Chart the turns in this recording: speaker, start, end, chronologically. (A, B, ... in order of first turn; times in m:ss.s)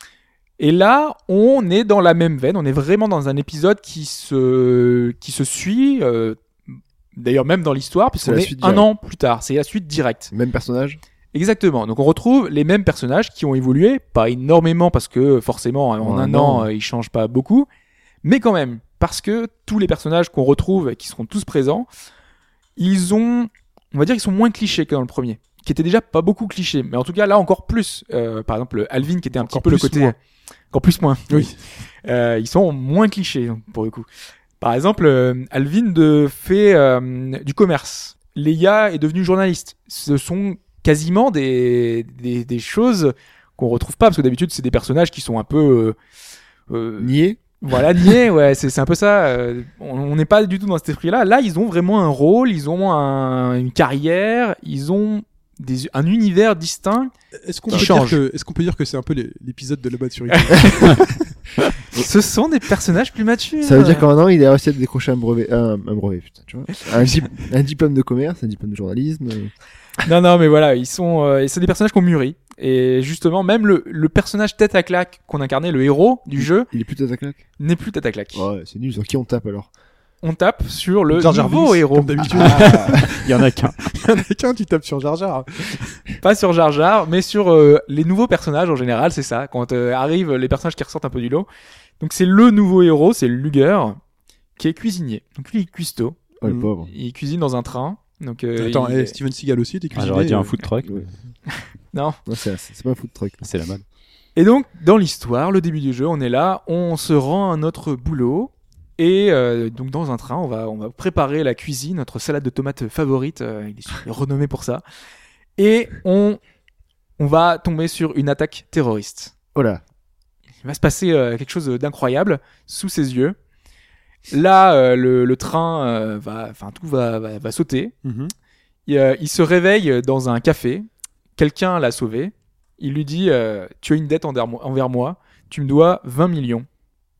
0:00.6-0:06.4 A
0:07.2-0:10.3 A
0:08.2-0:08.9 B
0:10.3-0:11.0 B
0:11.3-0:17.7 A
0:16.0-0:16.7 B
0:18.2-0:21.9 A
0:22.8-0:30.2 A
0:29.3-0:30.1 C
0:30.7-0:31.5 A
0:31.3-0:31.5 C
0:32.0-0:34.0 A
0:34.6-0:46.0 A
0:46.7-0:57.1 A
0:47.0-0:47.4 B
0:57.4-1:01.1 C
0:57.7-0:58.2 A
1:00.3-1:01.1 A
1:01.9-1:04.1 A
1:03.6-1:09.5 B
1:06.7-1:07.3 A
1:10.0-1:16.7 A
1:16.4-1:17.4 B
1:17.6-1:18.4 A
1:18.3-1:19.7 B
1:20.2-1:22.6 A
1:21.1-1:23.3 C
1:22.4-1:23.8 D
1:22.5-1:22.8 B
1:23.8-1:26.0 C
1:26.2-1:31.5 A
1:32.0-1:34.0 A
1:34.6-1:39.2 A
1:36.4-1:36.9 B
1:38.6-1:40.6 C
1:39.9-1:41.1 D
1:41.5-1:42.2 A
1:42.2-1:43.4 B
1:43.4-1:43.8 D
1:44.4-1:54.8 A
1:55.6-1:56.4 A
1:57.2-1:59.3 A
1:59.5-1:59.8 B
2:00.6-2:03.3 A
2:04.3-2:07.9 A
2:08.0-2:08.3 C
2:08.9-2:10.8 A
2:11.4-2:16.7 A